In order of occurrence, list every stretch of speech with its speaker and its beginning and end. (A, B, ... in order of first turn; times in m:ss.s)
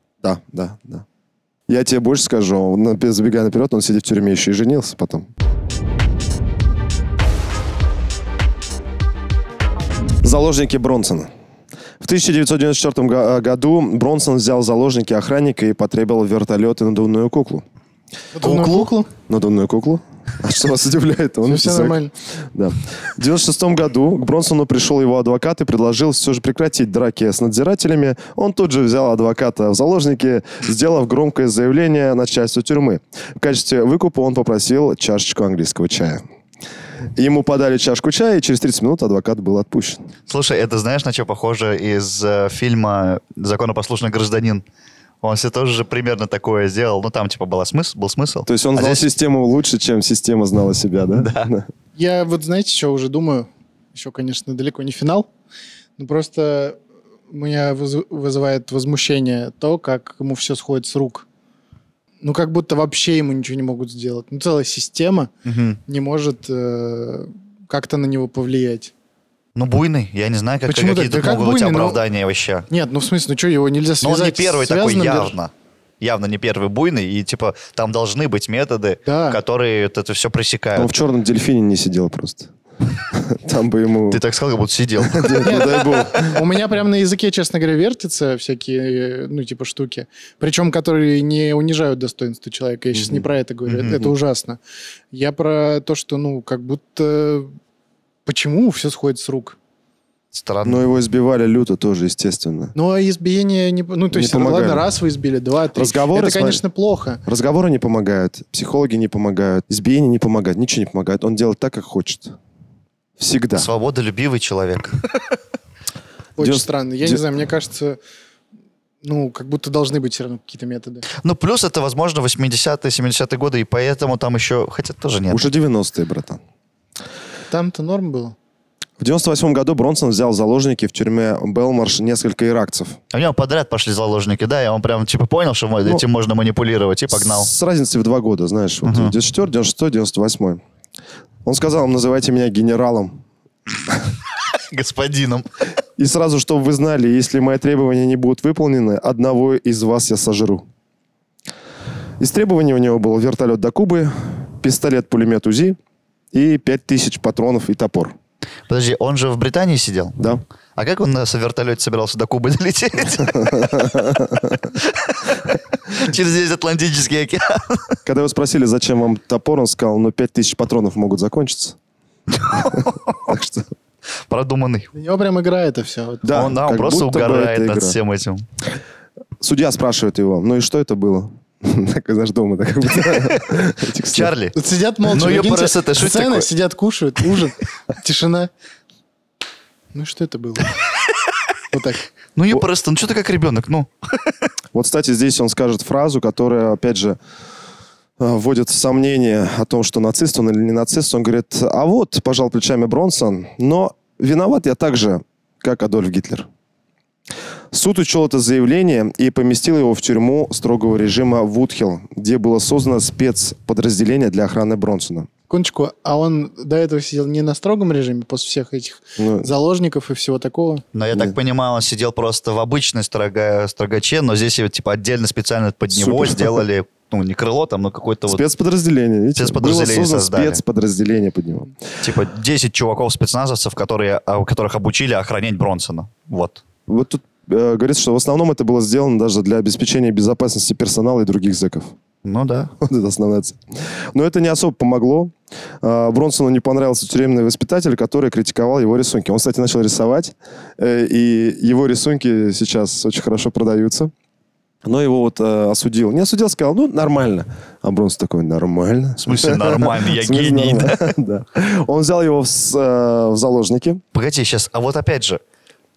0:00.2-0:01.0 A
0:01.7-0:05.3 A
0:10.2-0:11.3 A
0:12.0-0:17.6 A
0:18.3-0:19.1 B
0:18.4-0:18.9 C
0:19.3-0:22.0 A
0:21.4-0:22.1 B
0:22.5-0:36.2 A
0:37.2-0:40.0 A
0:40.3-0:44.6 C
0:45.2-0:49.0 C
0:48.4-0:51.7 A
0:51.2-0:51.5 C
0:52.0-0:55.3 B
0:56.0-0:56.8 B
0:57.3-1:01.2 B
1:02.2-1:05.3 B
1:05.4-1:05.8 C
1:05.9-1:08.9 B
1:09.5-1:12.6 C
1:10.7-1:12.0 B
1:12.7-1:15.3 B
1:14.0-1:20.9 C
1:19.0-1:19.4 B
1:20.8-1:22.5 A
1:23.1-1:24.2 A
1:24.1-1:25.5 C
1:25.0-1:26.4 A
1:25.4-1:34.6 B
1:32.9-1:33.2 A
1:33.7-1:34.1 C
1:35.1-1:37.5 B
1:38.2-1:39.6 B
1:40.3-1:40.8 C
1:40.6-1:42.7 A
1:42.7-1:47.2 B
1:44.1-1:44.8 A
1:45.7-1:46.6 A
1:47.2-1:52.3 A
1:53.2-1:53.7 A
1:53.5-1:55.3 C
1:56.4-1:58.0 B
1:56.4-1:57.2 A
1:59.0-2:01.1 B
2:01.1-2:05.4 C
2:05.3-2:06.4 A
2:07.5-2:08.4 B
2:09.0-2:13.0 A
2:13.1-2:17.5 C
2:17.1-2:20.6 A
2:18.8-2:19.1 C
2:21.4-2:23.2 A
2:24.5-2:25.5 C
2:26.0-2:30.6 A
2:32.2-2:35.8 A
2:36.3-2:38.1 A
2:38.7-2:40.2 C
2:40.8-2:43.9 C
2:43.2-2:44.6 A
2:44.7-2:48.0 C
2:48.0-2:51.8 A
2:52.3-2:53.3 C
2:52.5-2:53.7 A
2:54.3-2:54.9 C
2:54.9-2:56.3 B
2:56.2-2:58.0 A
2:56.3-2:58.4 C
2:59.4-3:04.3 A
3:03.0-3:03.6 C
3:04.1-3:06.5 C
3:04.5-3:08.5 B
3:09.9-3:10.7 B
3:11.7-3:12.0 B
3:12.4-3:14.4 C
3:14.7-3:17.2 A
3:18.2-3:26.5 A
3:27.7-3:35.3 A
3:35.5-3:40.8 B
3:39.2-3:39.5 A
3:40.9-3:48.4 C
3:45.9-3:46.6 A
3:48.3-3:51.7 A
3:49.4-3:50.6 C
3:52.0-3:56.6 C
3:56.9-4:01.9 A
4:02.2-4:02.7 C
4:02.8-4:14.1 A
4:14.8-4:24.0 A
4:19.2-4:21.0 C
4:24.1-4:25.4 C